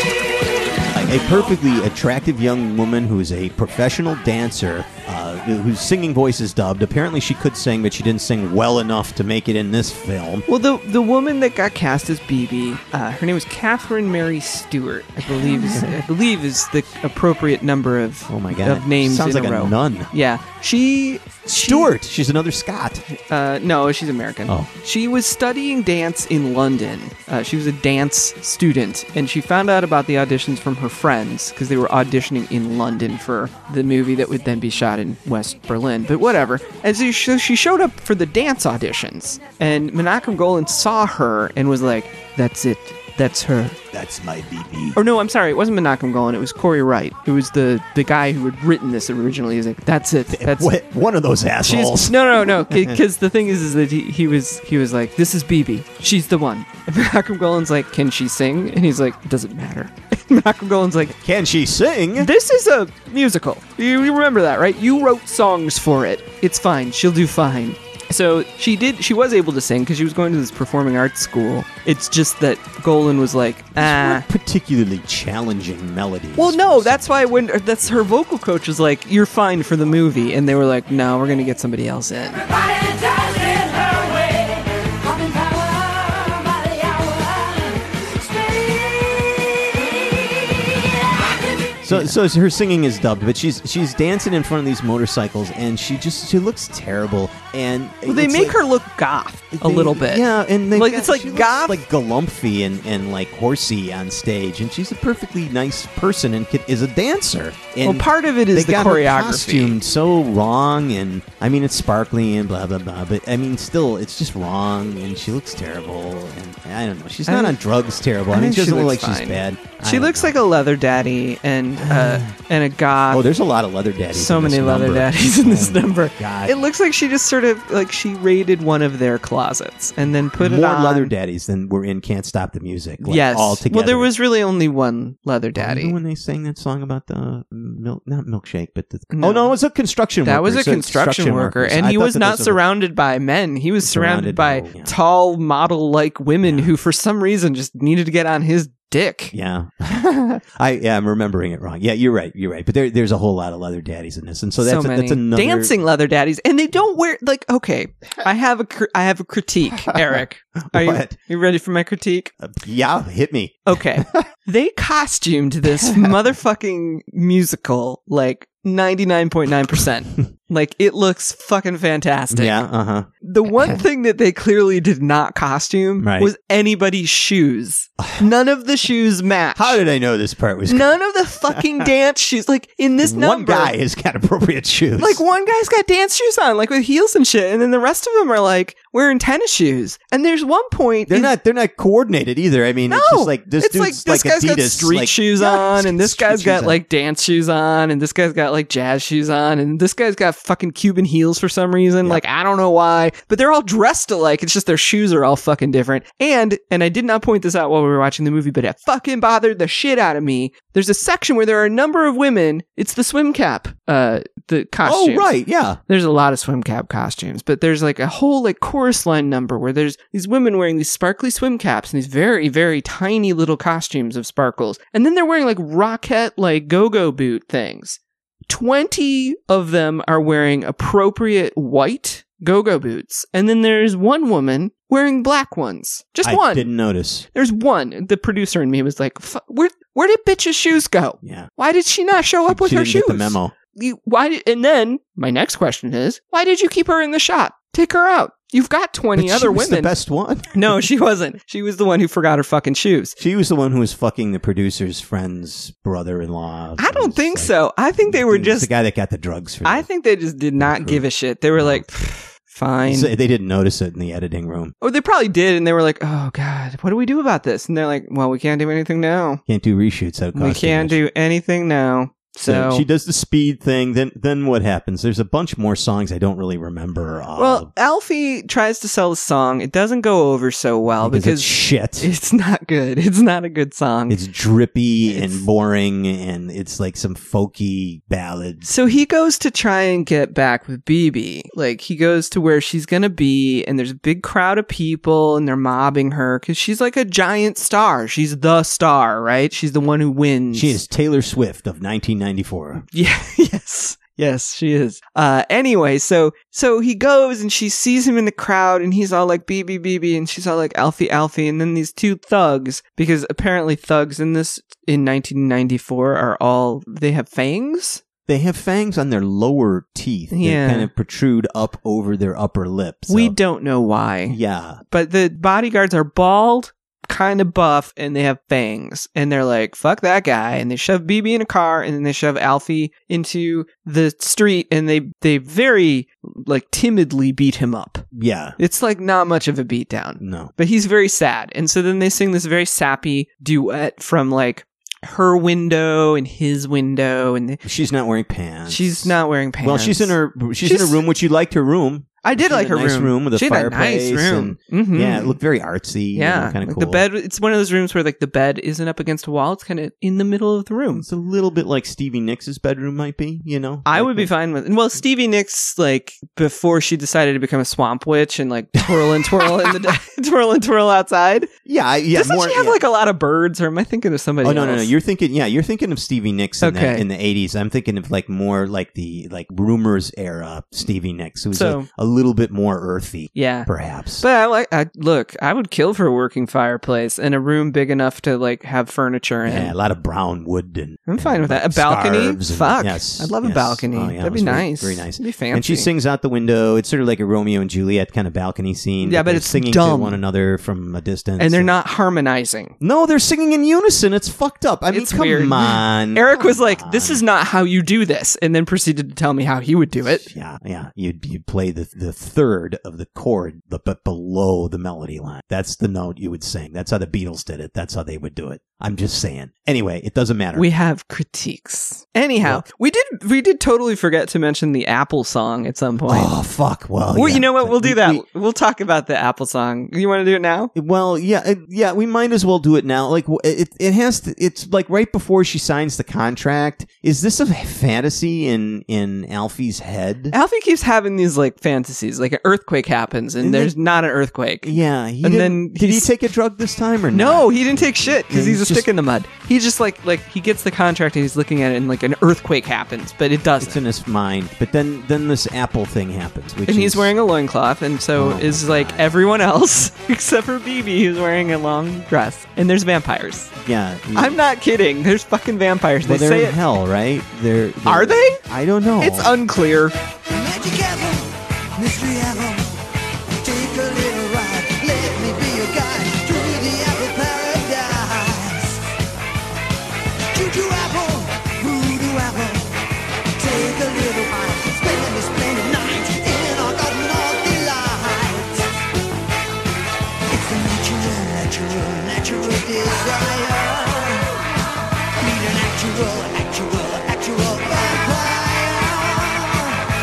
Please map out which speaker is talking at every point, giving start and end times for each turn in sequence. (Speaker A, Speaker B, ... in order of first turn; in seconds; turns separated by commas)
Speaker A: 0.3-1.5, Speaker B: 0.9-10.4, Speaker C: 10.5-21.9, Speaker B: 15.3-16.0, Speaker B: 18.3-20.1, Speaker B: 21.6-23.0, Speaker C: 23.1-43.8, Speaker B: 43.9-45.0, Speaker C: 45.0-50.7, Speaker B: 50.3-53.0, Speaker C: 51.6-61.1, Speaker B: 61.1-62.3, Speaker C: 62.2-74.3, Speaker B: 73.7-77.1, Speaker C: 76.4-82.4, Speaker A: 82.3-91.7, Speaker B: 91.8-98.6, Speaker C: 98.0-101.8, Speaker B: 99.5-120.4, Speaker C: 107.8-109.8, Speaker C: 117.3-117.5, Speaker C: 118.3-123.3, Speaker B: 121.8-122.4, Speaker B: 123.1-126.6, Speaker C: 124.1-131.1, Speaker B: 130.4-134.1, Speaker C: 133.0-136.0, Speaker B: 135.6-142.6, Speaker C: 139.1-139.6, Speaker C: 140.2-149.3, Speaker B: 143.8-144.9, Speaker B: 146.4-146.7, Speaker B: 149.3-155.8, Speaker C: 154.6-162.3, Speaker B: 159.9-161.2, Speaker B: 162.4-164.2, Speaker C: 163.7-172.6, Speaker B: 165.7-166.2, Speaker B: 172.3-173.8, Speaker C: 173.2-179.8, Speaker B: 176.0-176.3, Speaker B: 179.6-180.9, Speaker C: 180.7-183.7, Speaker B: 181.5-181.9, Speaker B: 183.0-185.2, Speaker C: 185.0-191.3, Speaker B: 191.1-196.8, Speaker C: 192.9-215.3, Speaker B: 214.8-215.8, Speaker C: 215.9-236.7, Speaker B: 236.2-237.3, Speaker C: 237.3-249.9, Speaker B: 241.2-241.5, Speaker B: 242.4-243.6, Speaker B: 249.1-250.8, Speaker C: 250.5-253.2, Speaker B: 253.2-259.9, Speaker C: 256.8-258.7, Speaker C: 259.6-263.1, Speaker B: 260.6-261.9, Speaker B: 262.8-264.7, Speaker C: 264.8-269.4, Speaker B: 269.5-271.0, Speaker C: 270.4-272.9, Speaker B: 272.4-277.7, Speaker C: 277.4-284.2, Speaker B: 281.0-282.1, Speaker B: 284.1-288.7, Speaker C: 285.1-285.4, Speaker C: 288.6-300.8, Speaker B: 300.5-302.9, Speaker C: 302.9-318.0, Speaker B: 318.3-323.4, Speaker C: 320.3-320.9, Speaker C: 323.1-324.4, Speaker B: 324.3-324.8, Speaker C: 324.9-338.1, Speaker B: 338.1-338.6, Speaker C: 338.6-347.6, Speaker B: 340.2-340.5, Speaker B: 347.6-357.1, Speaker C: 348.7-351.0, Speaker C: 352.2-355.4, Speaker C: 356.1-361.1, Speaker B: 360.9-364.3, Speaker C: 363.9-371.5, Speaker B: 368.9-369.9, Speaker B: 371.6-372.8, Speaker C: 372.1-374.9, Speaker B: 374.4-384.2, Speaker C: 376.6-377.1, Speaker C: 381.5-381.9, Speaker C: 383.4-383.7, Speaker C: 384.2-389.7, Speaker B: 389.4-401.8, Speaker C: 391.1-395.9, Speaker C: 399.0-400.2, Speaker C: 401.4-402.7, Speaker B: 402.8-407.2, Speaker C: 404.9-410.3, Speaker B: 410.0-420.7, Speaker C: 420.6-426.3, Speaker B: 426.1-428.2, Speaker C: 427.1-430.7, Speaker B: 430.7-440.4, Speaker C: 440.3-446.1, Speaker B: 443.4-443.7, Speaker B: 444.6-448.9, Speaker C: 447.1-453.8, Speaker B: 453.6-457.1, Speaker C: 456.7-463.5, Speaker B: 458.1-459.1, Speaker B: 463.6-464.4, Speaker C: 464.1-466.6, Speaker B: 466.0-469.4, Speaker C: 467.9-468.4, Speaker C: 469.0-469.9, Speaker D: 470.3-472.7, Speaker D: 473.4-478.9, Speaker D: 480.3-482.7, Speaker D: 483.4-488.7, Speaker D: 490.3-494.3, Speaker D: 495.2-499.9